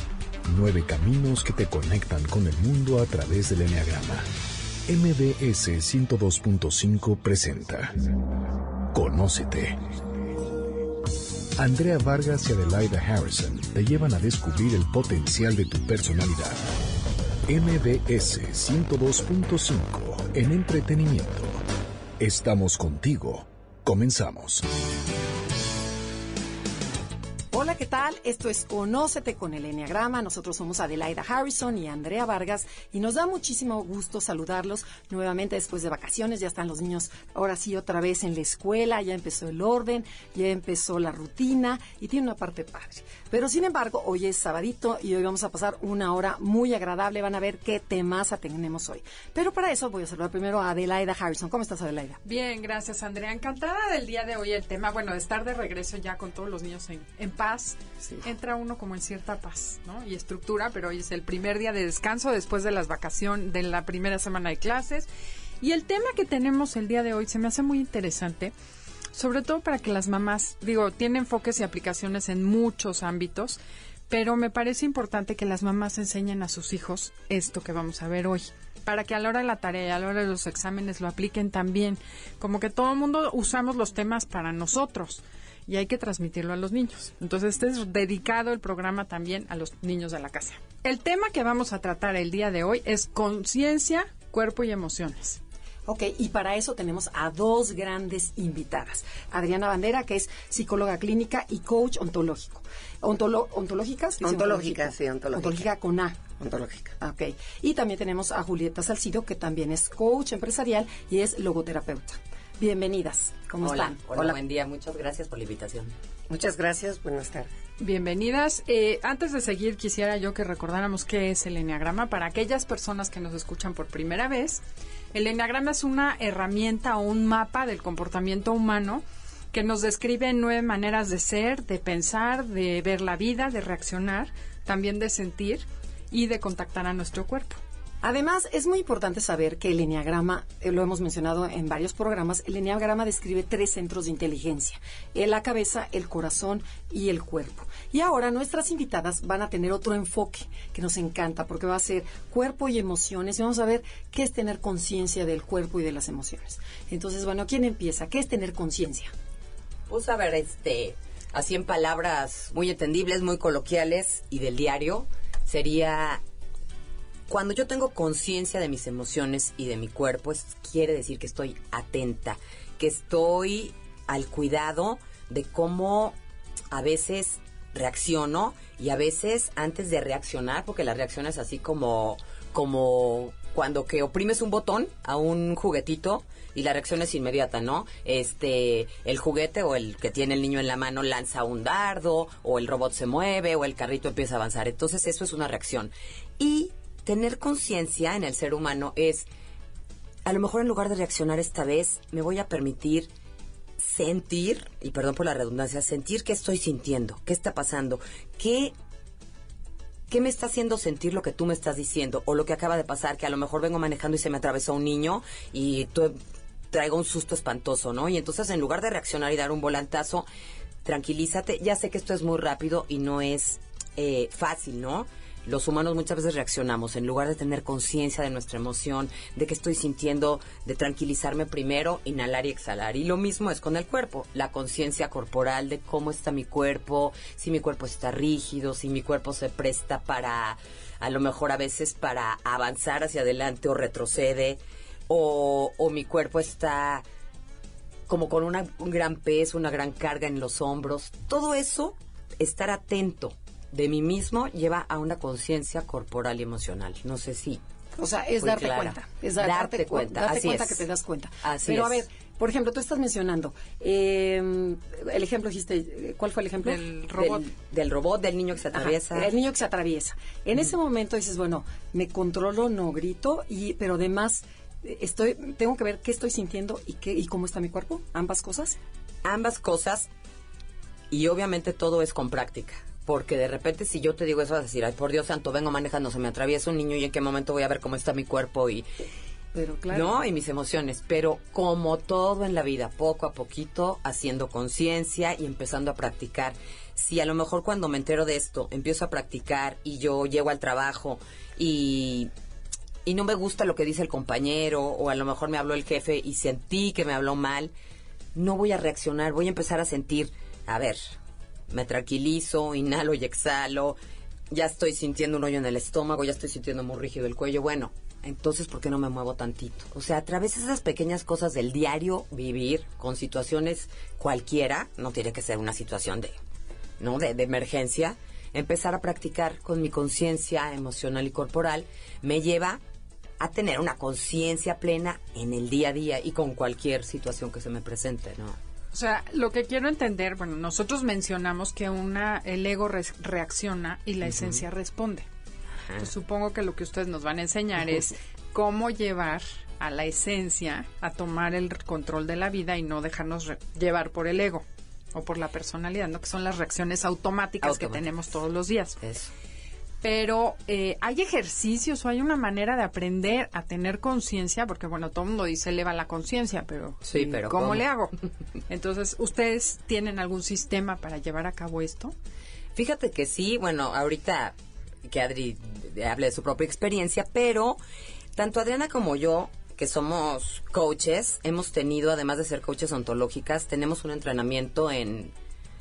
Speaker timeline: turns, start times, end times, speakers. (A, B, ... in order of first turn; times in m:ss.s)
0:00.5-0:04.2 A
0:04.9-0:07.9 A
0:08.9-0:09.8 A
0:11.6-0:16.6 A
0:17.5-0:21.6 A
0:22.2-0:24.6 A
0:27.5-0:52.2 B
0:52.2-1:05.1 C
1:05.6-1:08.5 C
1:09.1-1:35.4 C
1:35.9-1:46.2 B
1:44.2-1:45.6 D
1:46.4-1:47.0 D
1:47.0-1:54.4 B
1:53.6-1:55.9 E
1:56.3-1:57.5 D
1:57.8-2:04.6 C
2:05.1-2:17.6 C
2:18.0-2:39.1 B
2:39.9-2:46.2 E
2:47.3-2:56.2 E
2:56.7-3:19.2 E
3:20.2-3:23.1 E
3:23.8-3:28.7 E
3:30.1-3:36.2 E
3:36.7-3:40.2 E
3:40.8-4:07.0 E
4:08.1-4:17.6 E
4:18.0-4:27.4 B
4:18.4-4:20.8 E
4:21.4-4:22.0 E
4:26.7-4:29.3 E
4:28.7-4:38.8 B
4:39.2-4:40.1 E
4:41.1-4:48.8 E
4:49.5-4:50.2 B
4:49.9-5:02.3 E
5:03.0-5:07.7 E
5:08.4-5:11.0 E
5:11.7-5:14.0 E
5:14.5-5:26.3 E
5:27.0-5:32.8 E
5:33.4-5:38.6 E
5:38.9-5:45.2 C
5:44.2-5:44.6 E
5:46.0-5:59.0 C
5:57.6-5:58.0 E
5:59.0-5:59.3 E
6:00.0-6:08.1 C
6:07.1-6:07.8 E
6:08.7-6:12.1 C
6:12.8-6:14.5 E
6:15.0-6:17.8 E
6:18.4-6:25.3 E